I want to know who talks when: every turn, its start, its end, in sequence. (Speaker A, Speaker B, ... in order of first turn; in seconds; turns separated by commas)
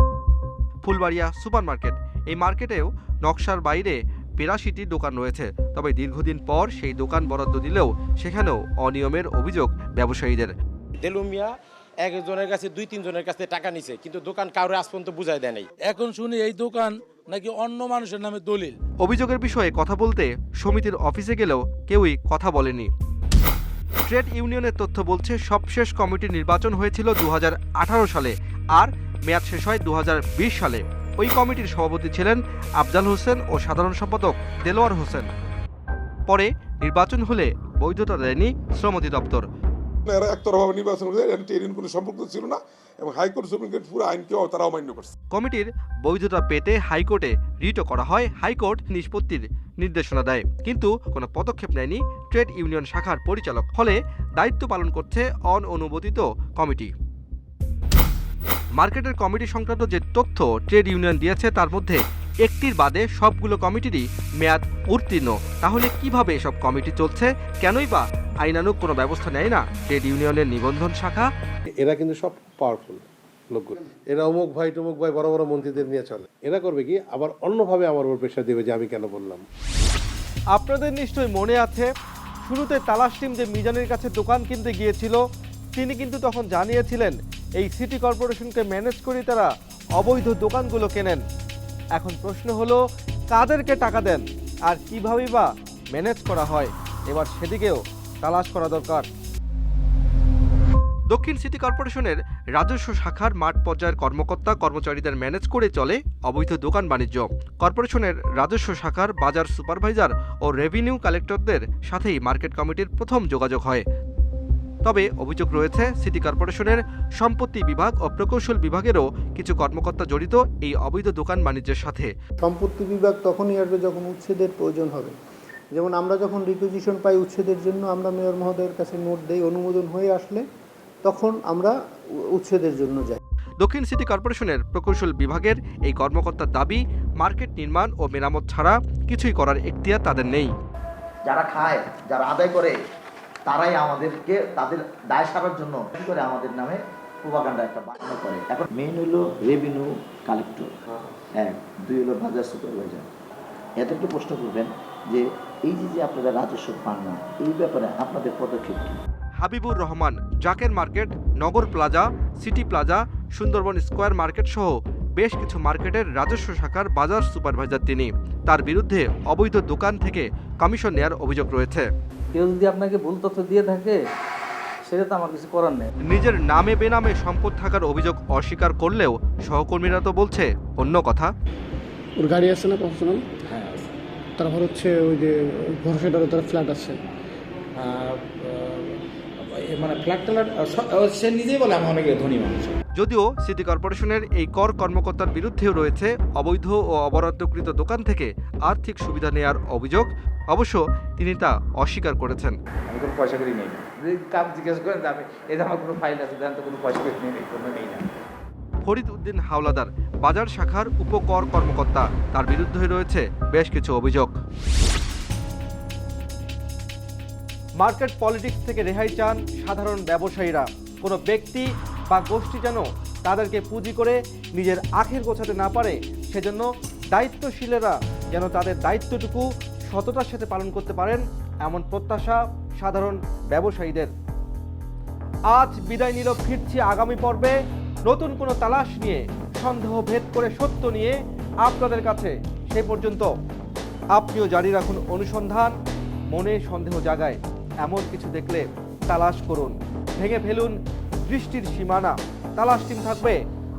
Speaker A: 0.8-10.5, Speaker B: 11.0-11.5, Speaker B: 12.0-15.7, Speaker C: 15.9-18.8, Speaker A: 19.0-22.9, Speaker A: 24.1-35.3, Speaker A: 36.3-39.5, Speaker D: 40.1-45.1, Speaker A: 45.3-56.9, Speaker A: 58.8-71.3, Speaker E: 71.8-79.4, Speaker A: 80.5-81.9, Speaker A: 82.5-85.2, Speaker A: 85.8-91.2, Speaker A: 92.0-92.8, Speaker A: 93.3-99.1, Speaker A: 101.1-113.8, Speaker A: 114.8-122.1, Speaker F: 122.4-125.1, Speaker F: 125.7-130.4, Speaker F: 131.0-131.7, Speaker F: 132.3-133.2, Speaker A: 133.6-140.5, Speaker G: 141.3-142.8, Speaker G: 143.5-150.7, Speaker G: 151.4-153.1, Speaker G: 153.8-159.0, Speaker A: 159.4-171.9, Speaker H: 172.3-174.0, Speaker H: 174.9-175.9, Speaker A: 176.1-181.3, Speaker I: 182.2-183.2, Speaker I: 184.4-187.0, Speaker J: 192.1-192.7, Speaker A: 192.9-202.6, Speaker J: 202.9-208.0, Speaker A: 208.8-214.3, Speaker A: 217.8-234.1, Speaker A: 235.5-237.6, Speaker A: 238.1-243.3, Speaker A: 244.2-245.7, Speaker A: 246.3-250.8, Speaker A: 251.3-253.4